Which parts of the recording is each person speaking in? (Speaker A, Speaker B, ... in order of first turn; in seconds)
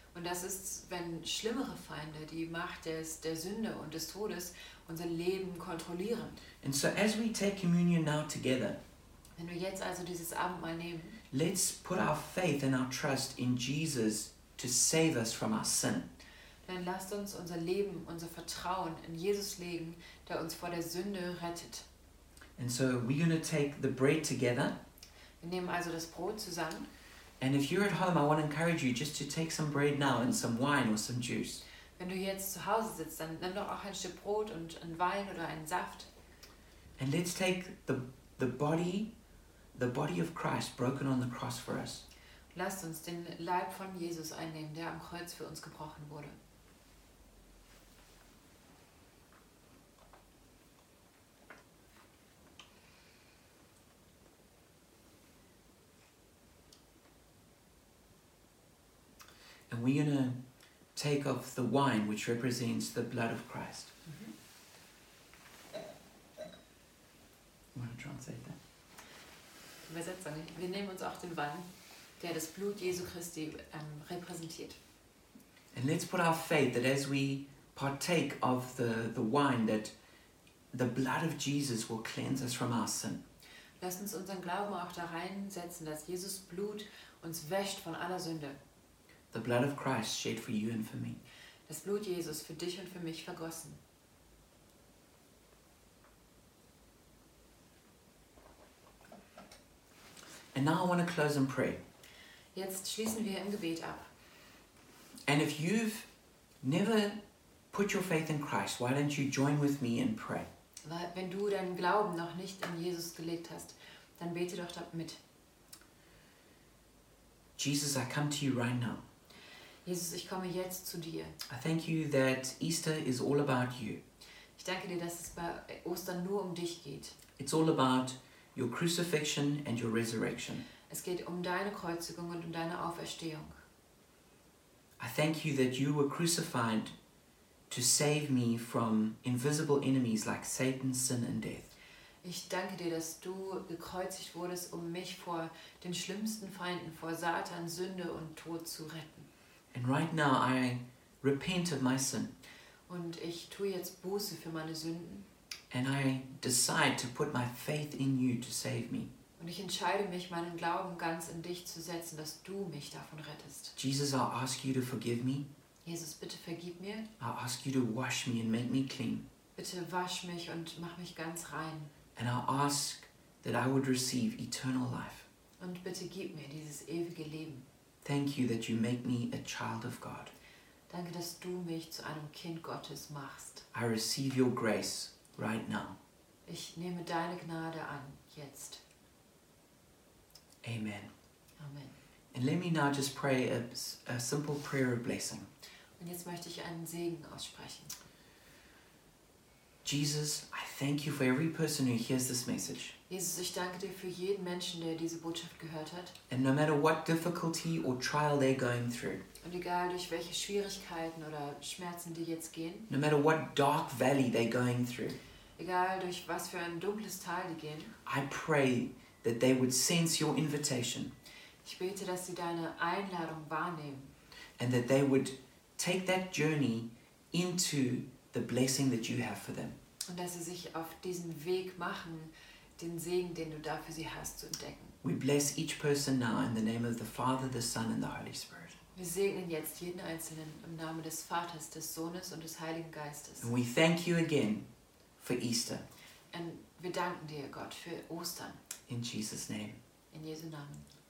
Speaker A: 0.1-6.4, 9.4-11.2, 16.6-21.9, 25.4-26.9, 32.0-36.1, 42.5-46.4, 64.1-64.3, 69.9-71.7, 72.2-74.8, 83.8-88.6, 91.7-93.8, 102.5-104.1, 110.8-115.2, 119.8-121.4, 124.6-127.2, 130.9-133.6, 142.2-149.3, 152.9-155.3, 159.4-163.8, 165.8-167.1, 169.6-171.9, 175.6-177.7, 180.9-183.7, 186.5-188.8, 191.6-191.9, 196.0-197.9, 203.1-206.2, 209.4-212.9, 215.6-217.9, 221.6-224.1, 230.1-234.9, 239.0-243.5, 246.3-248.6, 250.1-250.9
Speaker B: 6.6-8.8, 11.3-16.1, 22.6-24.8, 27.4-31.6, 37.0-39.1, 39.7-42.1, 59.7-60.4, 61.0-63.9, 67.8-68.6, 75.7-79.9, 80.7-83.2, 89.3-91.2, 100.5-101.8, 105.3-106.1, 106.6-107.2, 107.7-110.5, 117.6-119.0, 121.5-124.0, 127.4-130.6, 135.0-136.9, 137.7-141.7, 149.7-152.3, 155.7-159.1, 163.8-165.5, 167.2-169.2, 172.2-175.3, 178.0-180.3, 183.7-186.0, 190.6-191.1, 192.3-195.5, 199.8-202.9, 206.3-209.2, 212.9-215.2, 218.1-221.1, 224.6-229.8, 235.0-238.8, 243.4-244.7, 245.2-245.8, 248.9-249.8